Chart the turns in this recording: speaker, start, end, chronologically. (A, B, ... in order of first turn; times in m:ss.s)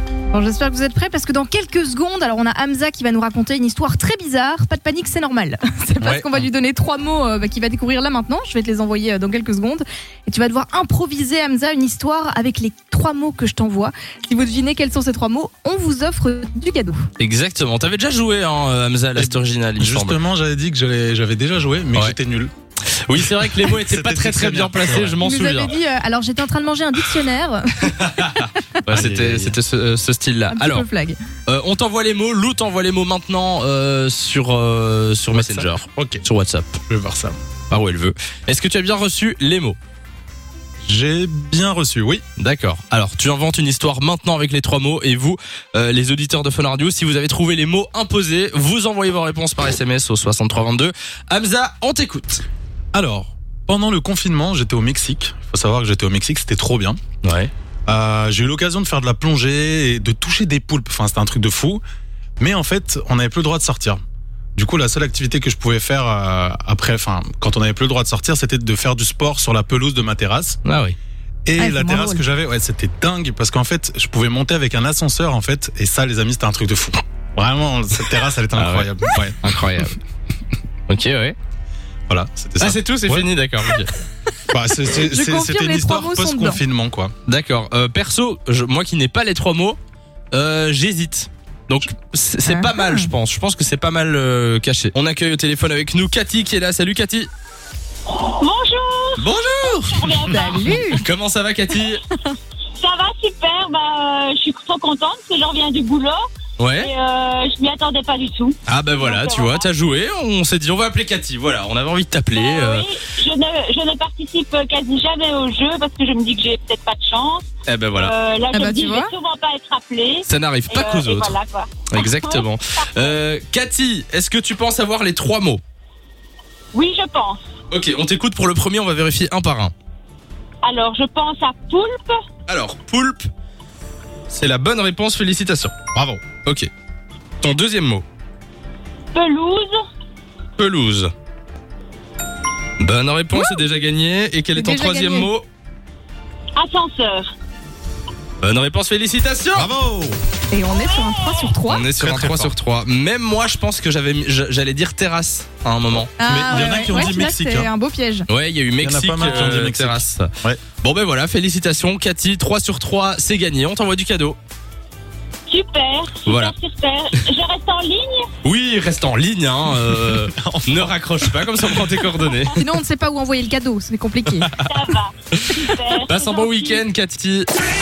0:00.3-0:17.0 A
0:06.0-0:06.5 B
0:17.2-0:20.2 B
0:19.2-0:22.5 C
0:23.0-0:25.8 B
0:23.2-0:25.2 C
0:25.2-0:28.8 A
0:27.9-0:30.8 B
0:28.9-0:29.6 C
0:30.5-0:31.2 A
0:31.5-0:36.8 B
0:35.3-0:36.2 C
0:36.9-0:37.4 C
0:37.7-0:39.8 B
0:40.8-0:42.2 C
0:42.4-0:52.4 B
0:52.9-0:57.0 C
0:57.2-0:57.5 B
0:57.9-1:01.8 C
1:02.4-1:04.0 C
1:04.6-1:10.6 C
1:10.6-1:11.0 B
1:11.4-1:19.5 C
1:11.6-1:12.2 A
1:18.6-1:18.9 B
1:19.4-1:20.0 B
1:20.9-1:21.4 B
1:22.1-1:23.3 C
1:22.6-1:23.9 B
1:24.5-1:27.1 C
1:25.0-1:26.6 A
1:27.3-1:29.8 B
1:30.3-1:37.3 B
1:32.4-1:33.1 A
1:38.2-1:40.8 D
1:39.2-1:42.0 B
1:40.3-1:41.0 A
1:42.8-1:46.2 D
1:46.6-1:46.9 B
1:46.8-1:49.7 D
1:48.7-1:52.9 B
1:52.3-2:03.2 D
1:57.7-1:58.1 B
1:58.5-1:59.1 A
2:00.2-2:01.4 B
2:01.9-2:05.6 B
2:06.7-2:07.4 D
2:07.7-2:09.7 B
2:10.6-2:12.2 D
2:12.5-2:13.3 B
2:14.3-2:16.7 B
2:15.9-2:16.2 C
2:17.4-2:18.0 B
2:19.1-2:19.8 D
2:20.6-2:21.1 B
2:22.8-2:25.5 B
2:23.3-2:23.6 A
2:24.6-2:25.3 A
2:26.6-2:27.3 D
2:28.4-2:29.7 B
2:29.6-2:30.2 C
2:30.5-2:31.9 A
2:30.7-2:31.6 D
2:31.7-2:36.9 B
2:32.0-2:32.6 C
2:36.2-2:38.3 A
2:36.3-2:37.7 C
2:38.3-2:40.3 B
2:38.8-2:40.6 C
2:40.8-2:44.4 B
2:45.5-2:48.3 D
2:46.3-2:46.5 B
2:48.4-2:52.6 B
2:49.8-2:52.0 C
2:52.6-2:54.5 A
2:54.6-2:56.8 D
2:55.3-2:57.5 B